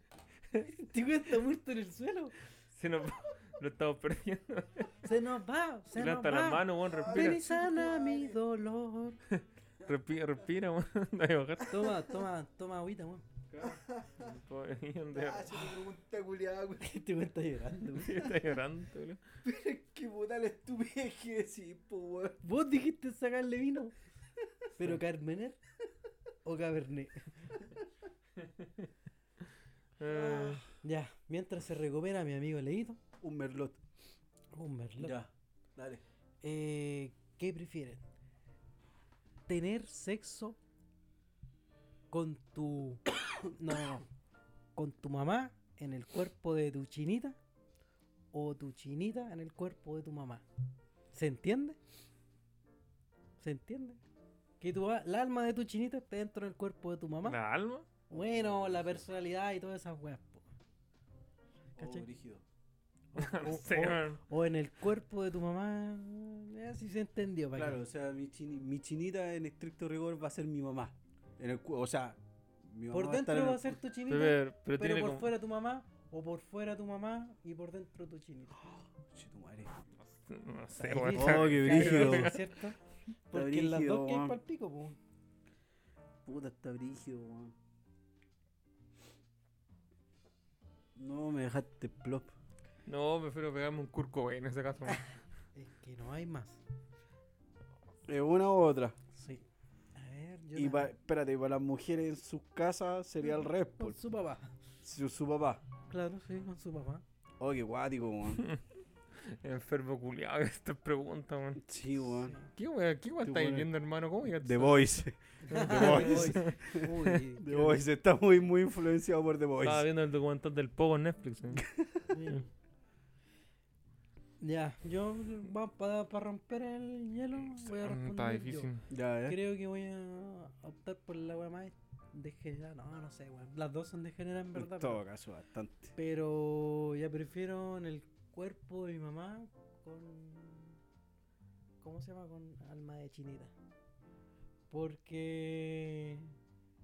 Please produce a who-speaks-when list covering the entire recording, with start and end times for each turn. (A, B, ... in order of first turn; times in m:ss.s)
0:00.6-0:02.4 A
0:02.7-0:04.9 B
0:05.0-0:09.2 A
0:06.0-0:07.4 B
0:06.9-0:08.4 C
0:09.3-0:11.8 B
0:11.7-0:13.2 A
0:13.5-0:14.4 C
0:14.2-0:15.6 B
0:15.1-0:16.9 C
0:16.8-0:18.3 A
0:18.0-0:19.2 B
0:19.4-0:22.4 C
0:22.4-0:23.9 A
0:24.8-0:25.6 A
0:26.4-0:27.6 A
0:30.0-0:30.6 B
0:30.0-0:30.6 C
0:30.8-0:33.0 A
0:33.2-0:33.8 C
0:34.5-0:35.2 A
0:35.0-0:36.0 C
0:36.4-0:38.0 A
0:39.5-0:40.6 A
0:42.1-0:44.0 A
0:44.8-0:47.4 A
0:48.3-0:50.4 A
0:51.1-0:51.8 A
0:53.4-0:54.0 A
0:54.6-0:57.4 A
0:57.2-0:57.9 B
0:58.1-0:59.0 C
0:58.1-1:00.5 A
1:01.8-1:02.4 C
1:01.8-1:02.0 A
1:03.1-1:07.8 A
1:03.2-1:04.2 B
1:07.6-1:13.8 C
1:12.9-1:18.6 A
1:14.1-1:15.3 B
1:19.1-1:19.8 C
1:20.1-1:22.5 B
1:20.8-1:22.8 A
1:21.1-1:22.4 C
1:23.3-1:25.0 A
1:23.3-1:24.4 C
1:26.2-1:27.6 C
1:31.0-1:32.3 C
1:32.9-1:35.0 B
1:35.6-1:36.6 A
1:38.1-1:39.0 C
1:39.1-1:39.4 A
1:40.0-1:40.9 A
1:40.6-1:44.0 C
1:43.2-1:44.5 A
1:44.8-1:45.6 C
1:45.9-1:47.0 A
1:47.4-1:48.4 C
1:49.2-1:51.6 B
1:51.6-1:52.4 C
1:52.2-1:52.5 A
1:52.6-1:56.6 B
1:53.2-1:53.7 C
1:54.4-1:59.9 C
1:55.4-1:57.8 A
1:59.6-2:01.6 B
2:01.6-2:02.0 C
2:02.1-2:02.5 A
2:04.4-2:08.7 A
2:07.5-2:08.8 B
2:08.9-2:09.4 C
2:09.3-2:15.0 A
2:14.5-2:16.0 C
2:16.0-2:20.8 A
2:21.8-2:23.5 A
2:24.7-2:26.3 A